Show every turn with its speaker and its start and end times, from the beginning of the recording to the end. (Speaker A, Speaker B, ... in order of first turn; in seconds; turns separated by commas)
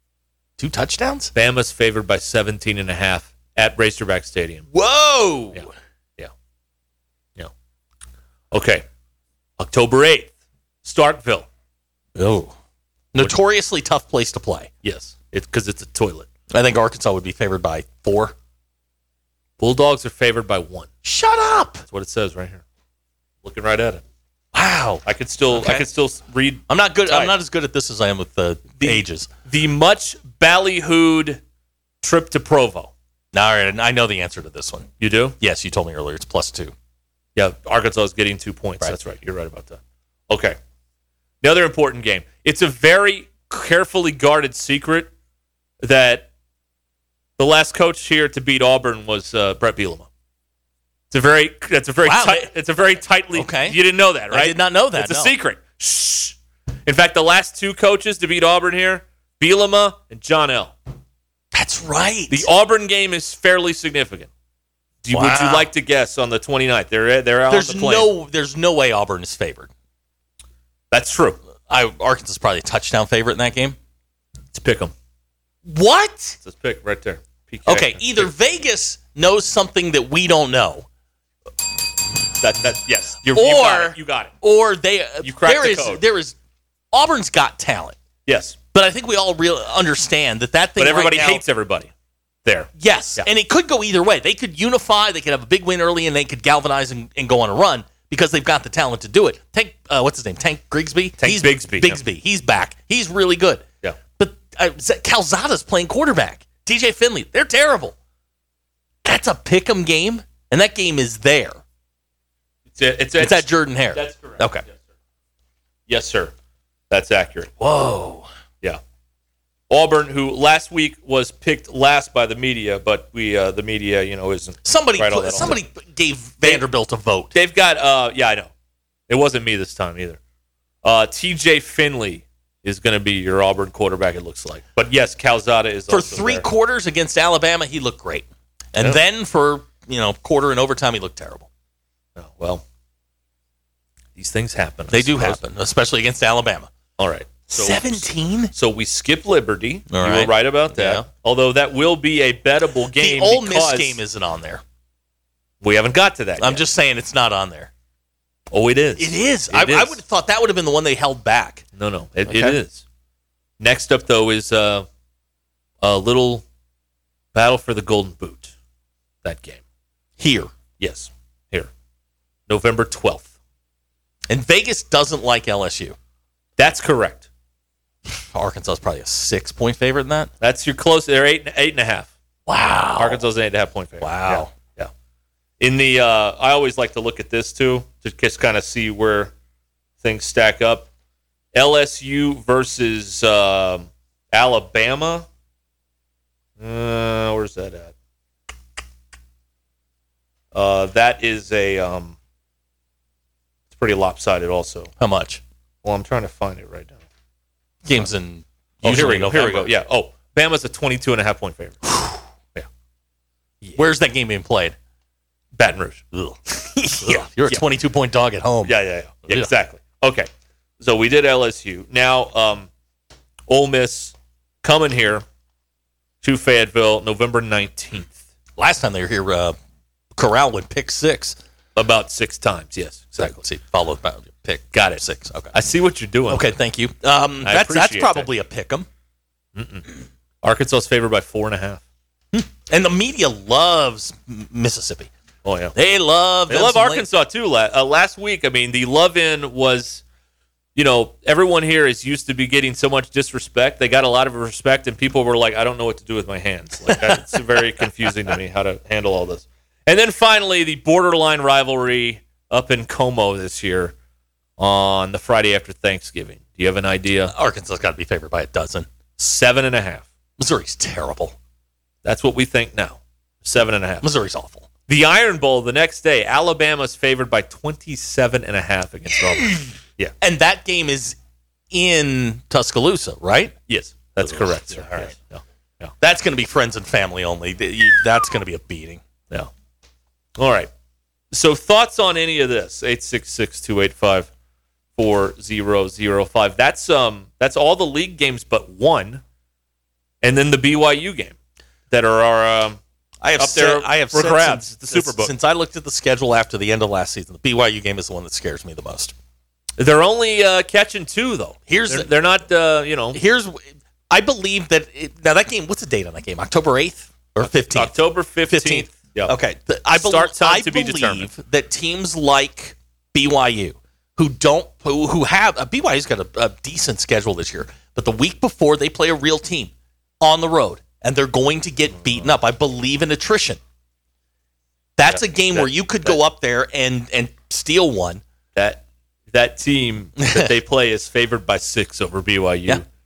Speaker A: 0.6-1.3, Speaker B: 1.3-4.7, Speaker A: 4.7-5.7, Speaker B: 8.5-8.8, Speaker B: 9.6-10.3, Speaker B: 10.8-11.5, Speaker A: 12.2-12.5, Speaker A: 13.1-14.7, Speaker B: 14.8-16.3, Speaker A: 16.5-18.3, Speaker B: 19.6-20.9, Speaker A: 21.0-21.8, Speaker B: 21.9-22.6, Speaker B: 23.4-24.0, Speaker A: 24.5-25.9, Speaker B: 25.0-27.4, Speaker A: 26.7-29.3, Speaker B: 28.8-31.4, Speaker B: 32.0-32.9, Speaker A: 33.3-36.7, Speaker B: 35.0-35.4, Speaker B: 37.4-40.6, Speaker B: 41.4-45.1, Speaker B: 45.8-46.3, Speaker B: 47.4-50.1, Speaker B: 51.1-60.7, Speaker A: 52.0-52.5, Speaker A: 53.3-53.8, Speaker A: 54.3-55.3, Speaker A: 61.5-62.5, Speaker B: 62.3-64.3, Speaker B: 65.0-68.1, Speaker A: 65.1-65.7, Speaker A: 67.5-69.7, Speaker B: 70.9-71.4, Speaker A: 71.7-73.8, Speaker B: 74.5-74.9, Speaker A: 75.7-76.4, Speaker B: 76.4-78.3, Speaker A: 77.7-80.8, Speaker B: 82.4-84.3, Speaker A: 83.3-86.3, Speaker B: 85.2-86.0, Speaker A: 86.9-88.0, Speaker B: 88.2-88.5, Speaker A: 88.7-91.4, Speaker B: 90.8-91.9, Speaker B: 92.4-93.3, Speaker A: 92.8-103.6, Speaker B: 101.2-102.0, Speaker A: 104.2-107.9, Speaker A: 109.0-111.6, Speaker B: 112.7-114.7, Speaker A: 113.2-114.6, Speaker B: 115.9-116.3, Speaker B: 116.9-117.5, Speaker A: 117.6-118.3, Speaker B: 119.7-125.6, Speaker A: 124.6-127.3, Speaker B: 127.3-128.5, Speaker B: 129.1-130.2, Speaker B: 130.8-136.4, Speaker A: 135.9-141.5, Speaker B: 142.2-142.6, Speaker B: 144.2-145.4, Speaker A: 144.9-146.7, Speaker B: 147.0-154.0, Speaker A: 147.5-148.5, Speaker A: 149.9-151.0, Speaker A: 153.0-154.6, Speaker B: 155.6-156.6, Speaker A: 156.4-157.7, Speaker B: 158.5-160.0, Speaker A: 159.0-161.6, Speaker B: 161.8-162.8, Speaker A: 162.3-162.6, Speaker B: 163.6-164.9, Speaker B: 165.8-166.4, Speaker B: 167.3-168.5, Speaker B: 169.2-169.6, Speaker A: 170.2-170.5, Speaker B: 170.8-171.7, Speaker B: 172.5-173.3, Speaker A: 174.3-175.9, Speaker B: 176.6-177.3, Speaker A: 178.3-180.3, Speaker B: 180.4-182.1, Speaker A: 182.5-183.2, Speaker B: 182.9-184.9, Speaker A: 184.0-184.5, Speaker B: 185.6-189.3, Speaker B: 190.0-190.9, Speaker B: 191.5-195.3, Speaker B: 196.6-197.9, Speaker B: 200.5-202.2, Speaker B: 203.7-204.9, Speaker A: 205.0-205.4, Speaker B: 205.8-207.0, Speaker A: 207.8-209.7, Speaker B: 208.8-212.0, Speaker A: 213.8-214.7, Speaker B: 215.6-216.0, Speaker A: 216.1-218.7, Speaker B: 217.0-217.6, Speaker B: 218.6-220.3, Speaker B: 220.8-222.7, Speaker B: 223.5-225.2, Speaker B: 226.2-228.1, Speaker A: 228.6-229.6, Speaker A: 230.1-231.4, Speaker B: 231.7-233.3, Speaker A: 233.2-235.5, Speaker B: 234.7-236.5, Speaker A: 236.3-238.9, Speaker B: 237.4-238.3, Speaker B: 239.6-239.9, Speaker B: 240.4-241.8, Speaker A: 242.3-245.1, Speaker B: 245.4-245.8, Speaker A: 245.8-247.0, Speaker B: 246.5-250.0, Speaker B: 250.7-263.9, Speaker B: 264.6-267.3, Speaker A: 267.3-268.9, Speaker B: 269.2-270.0, Speaker A: 270.4-271.3, Speaker B: 272.0-274.0, Speaker A: 274.0-274.7, Speaker B: 274.9-280.1, Speaker A: 280.2-281.2, Speaker A: 281.7-283.6, Speaker B: 283.7-285.9, Speaker A: 284.2-285.1, Speaker A: 286.0-289.0, Speaker B: 290.4-290.7, Speaker B: 291.3-294.3, Speaker B: 295.0-299.2, Speaker B: 300.2-301.3, Speaker B: 301.9-302.8, Speaker A: 303.2-309.1, Speaker B: 303.4-305.3, Speaker B: 309.8-313.2, Speaker A: 311.7-312.1, Speaker A: 313.1-317.9, Speaker B: 317.4-319.4, Speaker A: 318.5-333.6, Speaker B: 319.9-321.3, Speaker B: 332.0-332.3, Speaker A: 335.0-338.2, Speaker B: 335.1-336.2, Speaker B: 338.5-338.8, Speaker B: 339.3-342.9, Speaker A: 340.2-340.5